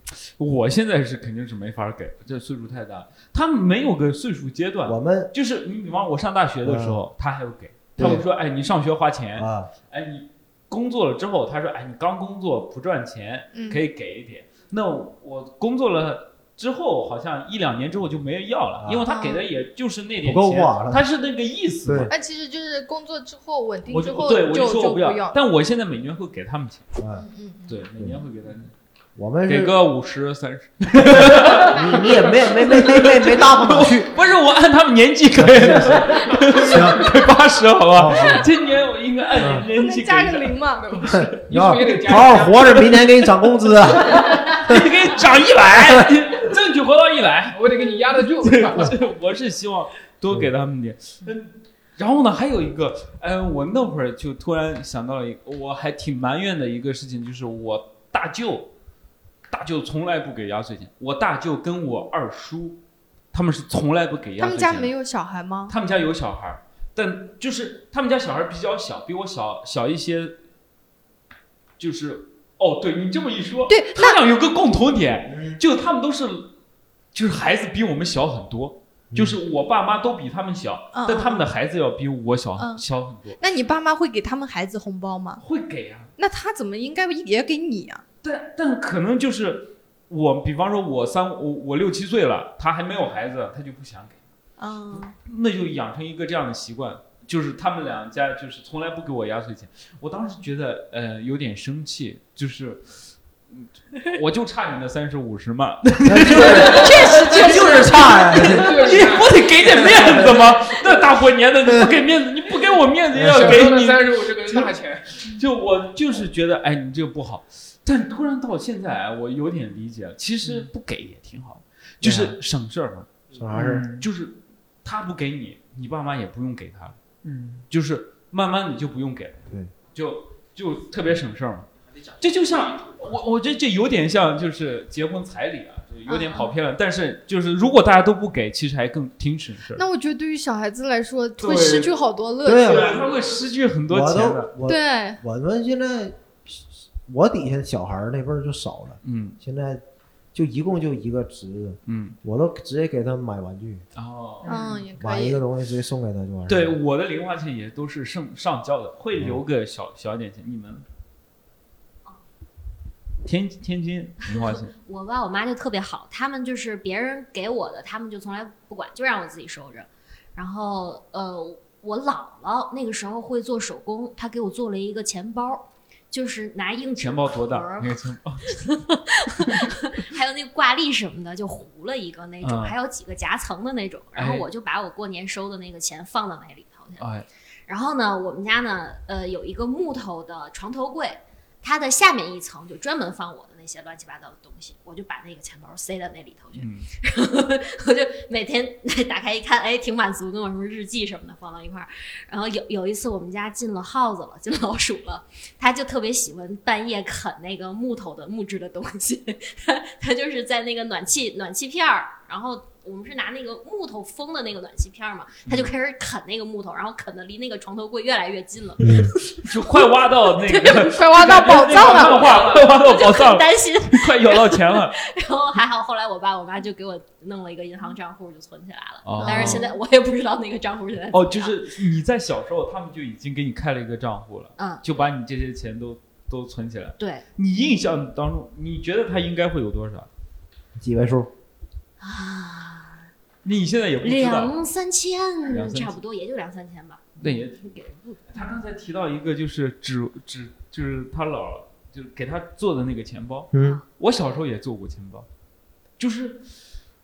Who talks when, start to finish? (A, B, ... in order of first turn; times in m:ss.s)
0:00.4-0:22.1 A
0:04.8-0:05.3 B
0:06.6-0:07.0 B
0:08.0-0:08.2 B
0:09.4-0:09.7 B
0:13.5-0:13.8 C
0:18.8-0:19.1 B
0:19.0-0:19.4 C
0:20.2-0:21.0 B
0:21.8-0:22.1 B
0:22.1-0:25.4 C
0:23.9-0:26.9 A
0:27.0-0:27.2 B
0:27.2-0:27.8 C
0:27.7-0:28.7 A
0:29.2-0:29.8 B
0:29.4-0:41.4 A
0:31.0-0:34.1 B
0:35.4-0:37.1 B
0:37.9-0:38.5 B
0:39.4-0:39.6 B
0:39.6-0:41.0 C
0:40.8-0:42.7 D
0:41.1-0:44.9 B
0:42.6-0:43.3 A
0:43.9-0:58.7 A
0:45.7-0:46.1 B
0:47.5-0:48.9 D
0:59.5-1:02.8 A
1:03.3-1:04.9 A
1:04.4-1:05.7 C
1:05.7-1:10.4 A
1:11.8-1:16.5 A
1:13.7-1:14.2 C
1:15.3-1:15.6 B
1:17.1-1:23.4 A
1:19.1-1:19.4 B
1:20.9-1:21.5 C
1:22.6-1:22.8 C
1:23.4-1:25.4 C
1:25.4-1:26.1 A
1:26.2-1:28.0 C
1:28.2-1:34.2 A
1:34.6-1:35.1 C
1:34.9-1:54.7 A
1:46.0-1:48.9 B
1:48.4-1:49.6 D
1:49.8-1:50.4 B
1:51.6-1:52.0 B
1:53.1-1:53.7 B
1:53.2-1:55.3 D
1:55.2-2:07.0 A
2:02.0-2:02.4 B
2:03.3-2:03.8 B
2:03.5-2:04.1 D
2:07.2-2:07.6 D
2:07.7-2:19.8 A
2:16.1-2:16.5 C
2:19.7-2:23.1 C
2:21.4-2:21.9 A
2:22.4-2:23.0 B
2:22.6-2:24.5 A
2:23.9-2:29.8 B
2:24.6-2:25.2 C
2:29.0-2:29.4 A
2:30.3-2:33.8 B
2:31.8-2:32.2 A
2:33.9-2:34.7 A
2:34.4-2:35.4 C
2:34.4-2:34.8 D
2:35.0-2:36.8 B
2:36.5-2:40.8 A
2:43.2-2:44.7 A
2:44.3-3:07.1 E
2:57.0-2:58.7 A
3:02.4-3:02.8 A
3:04.1-3:04.5 A
3:07.0-3:07.3 A
3:07.7-3:51.6 E
3:16.6-3:16.9 A
3:35.4-3:35.7 A
3:38.8-3:39.1 B
3:39.4-3:45.0 A
3:40.8-3:42.4 C
3:49.0-3:49.7 A
3:49.2-3:49.7 C
3:51.1-4:00.1 A
3:54.6-3:55.0 E
3:57.0-3:57.2 E
4:00.8-4:01.3 B
4:02.0-4:03.1 E
4:03.4-4:04.5 A
4:04.0-4:08.4 E
4:05.5-4:06.0 A
4:07.2-4:07.8 A
4:08.3-4:15.2 A
4:13.5-4:13.8 B
4:13.5-4:13.8 E
4:16.0-4:16.4 A